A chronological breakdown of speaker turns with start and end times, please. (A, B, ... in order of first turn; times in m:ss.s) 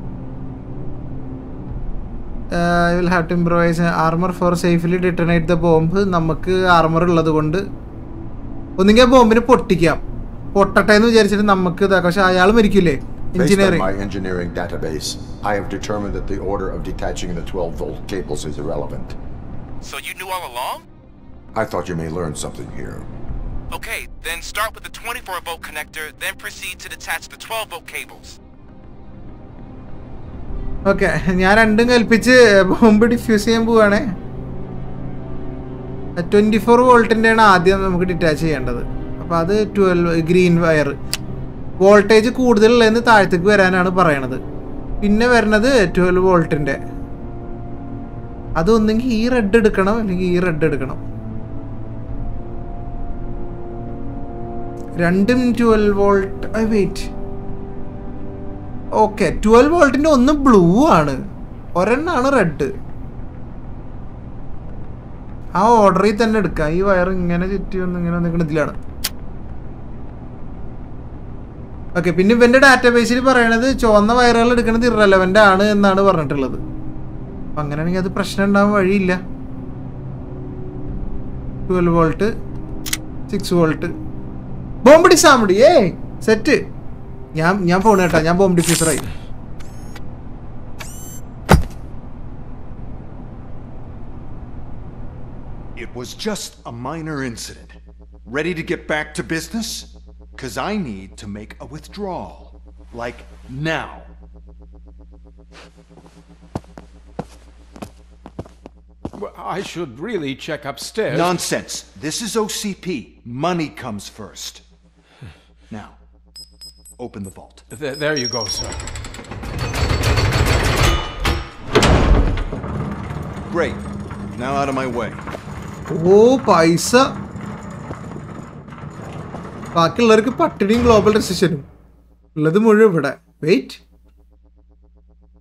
0:02.6-0:07.6 A
0:08.8-0:10.0 A
0:10.6-0:13.9 A
0:13.4-0:19.2 B
0:19.8-0:20.8 C
0:21.5-0:23.1 B
0:23.7-0:28.4 C
0:30.9-0:34.1 A
0:36.2-0:40.9 A
0:41.8-0:44.4 A
0:45.0-0:46.8 A
0:48.6-0:51.0 A
0:55.0-0:57.1 A
0:59.0-1:01.2 A
1:01.8-1:02.7 A
1:05.6-1:08.8 A
1:12.0-1:16.6 A
1:17.6-1:19.2 A
1:21.7-1:22.3 A
1:23.3-1:23.9 A
1:24.8-1:26.6 A
1:27.4-1:29.1 A
1:35.8-1:44.1 D
1:49.1-1:51.4 E
1:51.1-1:54.6 D
1:55.7-1:56.0 D
1:57.0-1:57.6 D
1:57.7-1:58.8 E
2:03.5-2:05.2 D
2:05.9-2:07.1 A
2:09.8-2:11.6 A
2:12.4-2:13.8 A